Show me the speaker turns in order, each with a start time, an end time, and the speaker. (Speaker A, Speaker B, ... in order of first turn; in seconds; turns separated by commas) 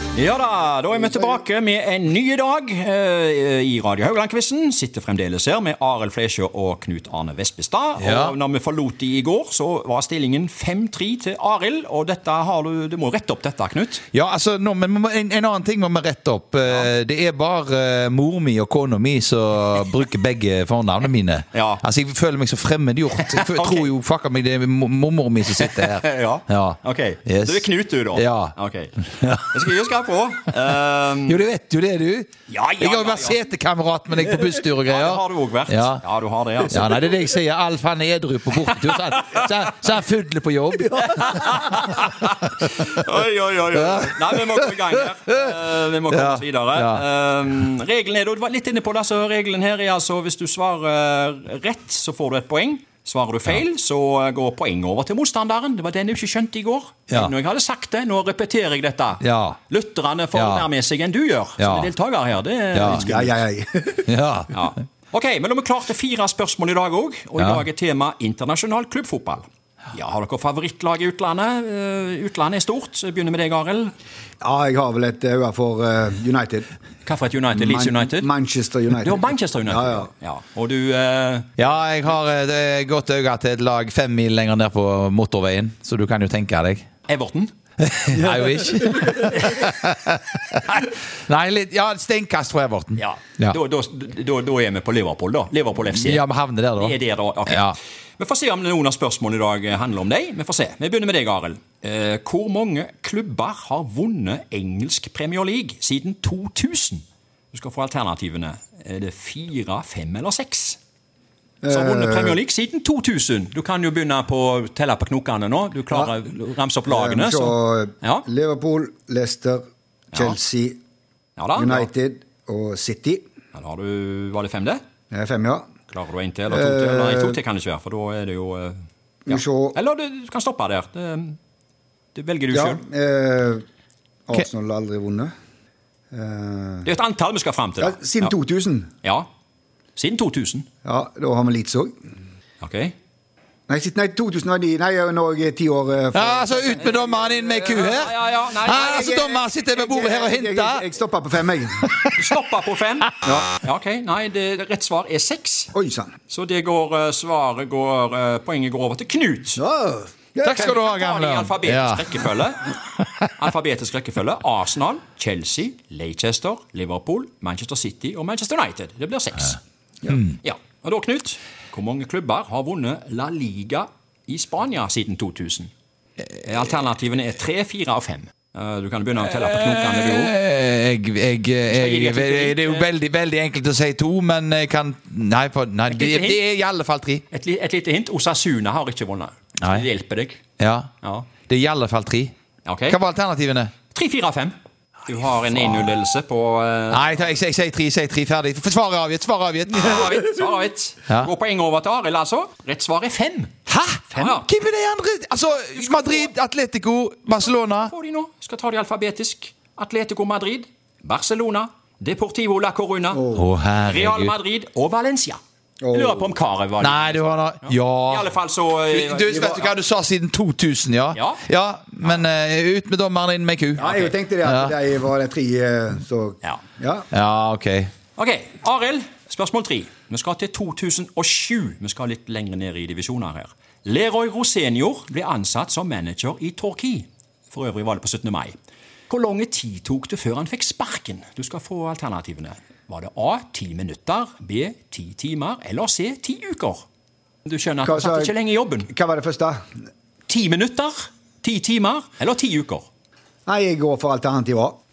Speaker A: 0.1-14.1, Speaker B: 8.0-8.3, Speaker B: 14.1-27.6, Speaker A: 16.7-16.9, Speaker A: 21.5-21.8, Speaker A: 23.2-23.9, Speaker A: 25.5-31.4, Speaker B: 28.1-29.7, Speaker B: 31.3-36.0, Speaker A: 32.5-33.4, Speaker A: 34.2-37.2, Speaker B: 36.6-42.9, Speaker A: 38.7-39.5, Speaker A: 41.0-63.4, Speaker B: 43.7-45.5, Speaker B: 46.1-47.0, Speaker B: 59.2-59.6, Speaker B: 60.3-60.7, Speaker B: 61.6-61.9, Speaker B: 62.7-63.2, Speaker C: 62.8-64.1, Speaker B: 64.1-64.5, Speaker A: 64.5-73.9, Speaker B: 67.4-67.6, Speaker C: 74.4-76.7, Speaker A: 77.0-78.3, Speaker C: 77.5-80.1, Speaker A: 78.9-81.5, Speaker B: 81.6-86.9, Speaker A: 87.1-87.5, Speaker B: 87.8-93.6, Speaker A: 93.0-96.2, Speaker B: 95.8-97.8, Speaker A: 96.8-110.8, Speaker C: 111.6-112.4, Speaker A: 111.7-118.3, Speaker C: 116.9-120.8, Speaker A: 121.4-121.9, Speaker C: 121.5-123.2, Speaker A: 123.5-124.8, Speaker C: 125.1-125.7, Speaker A: 125.9-131.4, Speaker C: 126.5-127.4, Speaker C: 129.3-129.8, Speaker A: 132.1-132.8, Speaker C: 132.5-133.6, Speaker C: 134.3-135.3, Speaker C: 136.1-136.9, Speaker A: 136.8-138.3, Speaker C: 137.8-138.9, Speaker A: 139.0-139.3, Speaker A: 140.0-140.7, Speaker C: 140.8-141.9, Speaker A: 142.6-142.9, Speaker C: 143.7-146.9, Speaker B: 146.1-150.9, Speaker A: 146.8-149.4, Speaker C: 148.7-151.9, Speaker B: 151.8-152.2, Speaker A: 152.2-155.7, Speaker C: 153.2-153.5, Speaker C: 155.7-156.1, Speaker A: 156.3-159.6, Speaker C: 159.6-160.8, Speaker B: 160.4-162.2, Speaker A: 160.4-162.8, Speaker B: 163.0-163.3, Speaker A: 163.4-169.6, Speaker B: 170.1-170.4, Speaker A: 170.4-175.7, Speaker A: 176.4-180.3, Speaker B: 179.2-187.2, Speaker A: 181.7-182.9, Speaker A: 185.9-186.4, Speaker A: 187.3-190.4, Speaker B: 189.6-189.9, Speaker B: 190.6-190.9, Speaker A: 191.0-191.3, Speaker B: 191.5-192.3, Speaker A: 192.7-193.0, Speaker B: 192.9-193.7, Speaker A: 193.9-194.6, Speaker A: 195.1-197.1, Speaker B: 196.9-200.4, Speaker A: 199.8-203.5, Speaker B: 203.7-207.9, Speaker A: 204.1-204.5, Speaker A: 205.7-206.4, Speaker A: 207.4-213.3, Speaker C: 213.1-213.4, Speaker B: 213.3-214.3, Speaker A: 213.9-215.4, Speaker C: 215.8-216.3, Speaker A: 215.9-219.6, Speaker B: 216.8-218.3, Speaker B: 218.9-224.7, Speaker C: 219.3-219.7, Speaker A: 221.1-221.4, Speaker C: 223.8-227.1, Speaker A: 223.8-224.1, Speaker B: 227.1-227.9, Speaker A: 228.2-238.5, Speaker A: 239.1-246.8, Speaker A: 247.4-248.9, Speaker C: 247.8-248.3, Speaker C: 248.9-249.6, Speaker A: 250.3-252.9, Speaker C: 253.5-254.8